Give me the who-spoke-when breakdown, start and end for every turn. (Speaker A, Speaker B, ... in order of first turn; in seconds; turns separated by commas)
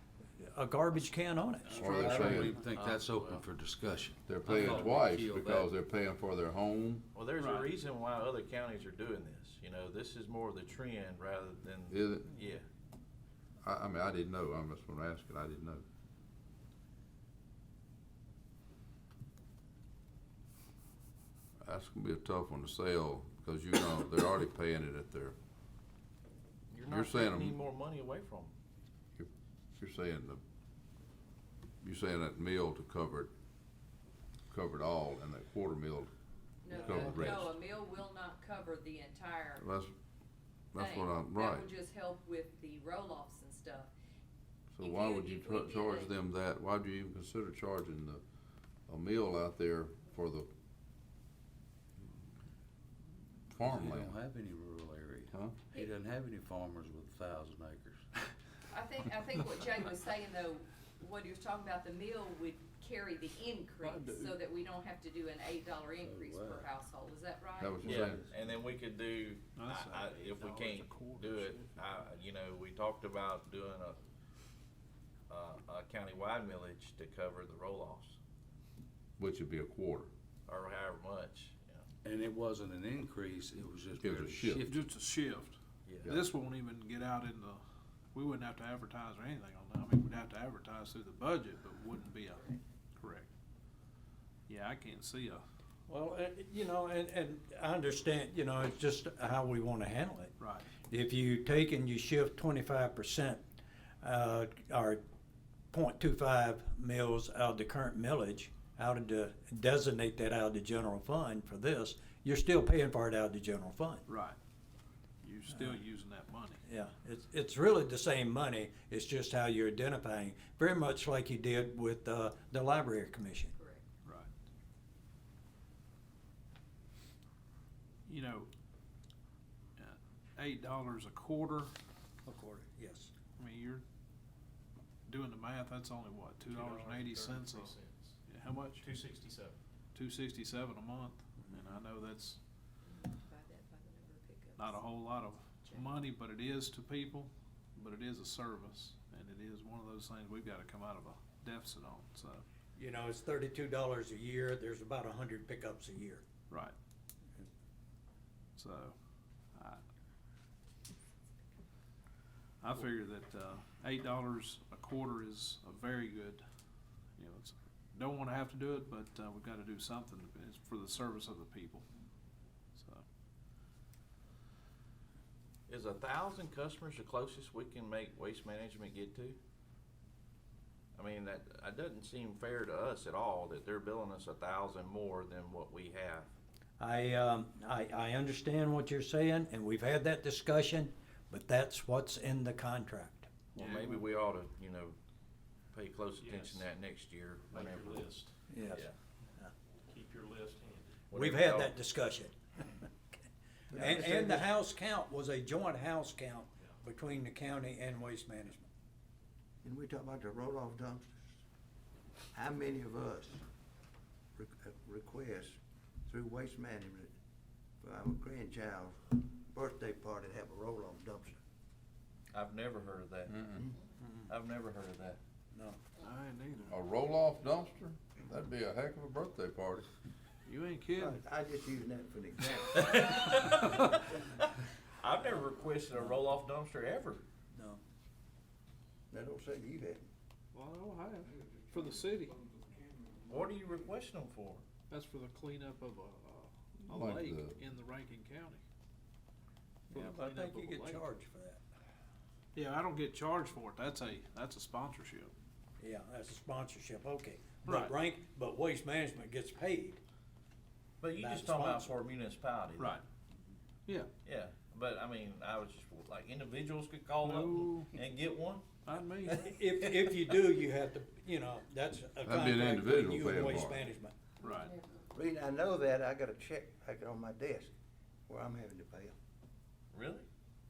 Speaker A: 0.4-1.8, Speaker B: 1.7-5.7, Speaker C: 1.8-2.5, Speaker D: 2.4-3.4, Speaker C: 4.2-7.0, Speaker D: 7.1-12.6, Speaker E: 7.4-7.7, Speaker C: 11.9-12.4, Speaker C: 13.6-15.8, Speaker C: 21.6-25.4, Speaker D: 26.7-28.5, Speaker C: 26.9-27.6, Speaker C: 29.2-30.4, Speaker C: 31.8-33.3, Speaker C: 34.5-36.1, Speaker F: 36.6-39.6, Speaker C: 36.7-37.5, Speaker A: 36.8-37.4, Speaker C: 39.6-39.9, Speaker C: 40.7-41.7, Speaker F: 40.8-43.9, Speaker C: 44.7-48.2, Speaker F: 44.8-46.1, Speaker C: 48.9-50.5, Speaker C: 53.5-54.1, Speaker B: 53.6-58.2, Speaker C: 55.3-55.6, Speaker F: 58.7-67.8, Speaker B: 63.8-64.4, Speaker B: 66.0-66.7, Speaker C: 67.6-68.2, Speaker G: 67.8-68.5, Speaker D: 67.9-74.0, Speaker E: 69.6-72.0, Speaker D: 75.3-78.2, Speaker C: 79.2-80.1, Speaker D: 80.5-81.8, Speaker B: 82.0-84.9, Speaker C: 84.0-84.7, Speaker E: 84.7-87.6, Speaker D: 85.8-86.2, Speaker E: 88.1-93.3, Speaker E: 94.5-95.4, Speaker A: 95.9-103.4, Speaker E: 100.4-100.7, Speaker A: 104.0-105.0, Speaker A: 105.7-114.0, Speaker E: 114.1-114.4, Speaker E: 115.2-116.6, Speaker A: 115.5-115.8, Speaker A: 116.6-123.5, Speaker F: 123.5-123.8, Speaker E: 128.1-128.5, Speaker E: 129.8-131.7, Speaker A: 132.2-133.1, Speaker E: 133.4-133.8, Speaker E: 135.1-137.8, Speaker H: 136.5-138.1, Speaker E: 138.3-138.9, Speaker H: 138.8-139.6, Speaker E: 139.9-142.4, Speaker A: 141.5-141.7, Speaker F: 142.8-144.8, Speaker E: 144.6-152.4, Speaker F: 145.6-145.9, Speaker A: 152.8-156.2, Speaker E: 156.5-156.7, Speaker E: 158.6-158.9, Speaker E: 159.6-159.8, Speaker E: 162.6-166.4, Speaker E: 167.2-171.9, Speaker E: 172.8-173.0, Speaker D: 175.7-179.4, Speaker D: 180.9-186.3, Speaker A: 186.8-193.3, Speaker D: 193.5-194.9, Speaker E: 193.6-194.0, Speaker D: 195.7-198.1, Speaker H: 196.2-196.6, Speaker H: 197.5-198.3, Speaker A: 198.5-199.5, Speaker H: 199.9-200.9, Speaker D: 201.1-201.8, Speaker A: 201.1-202.9, Speaker G: 203.7-204.5, Speaker A: 203.7-208.7, Speaker G: 209.6-211.2, Speaker G: 212.3-213.4, Speaker G: 214.3-217.1, Speaker G: 217.8-221.4, Speaker D: 222.3-223.6, Speaker C: 223.3-223.6, Speaker A: 224.0-224.3, Speaker D: 224.3-225.2, Speaker A: 225.5-225.8, Speaker E: 226.0-226.8, Speaker C: 226.7-229.9, Speaker E: 230.4-231.2, Speaker G: 230.9-232.9, Speaker D: 232.8-237.2, Speaker A: 237.5-237.8, Speaker G: 239.1-240.1, Speaker E: 240.5-242.4, Speaker D: 243.3-244.6, Speaker E: 244.9-248.6, Speaker C: 246.9-247.6, Speaker A: 249.9-251.6, Speaker E: 249.9-251.0, Speaker E: 252.5-255.3, Speaker A: 255.8-260.0, Speaker E: 257.6-258.0, Speaker D: 261.0-263.0, Speaker A: 261.2-261.9, Speaker E: 262.8-263.0, Speaker D: 264.2-268.7, Speaker E: 267.2-267.9, Speaker E: 268.9-269.5, Speaker A: 269.2-274.1, Speaker C: 272.2-273.8, Speaker E: 274.4-274.7, Speaker G: 275.1-277.7, Speaker G: 278.3-279.1, Speaker D: 279.9-280.2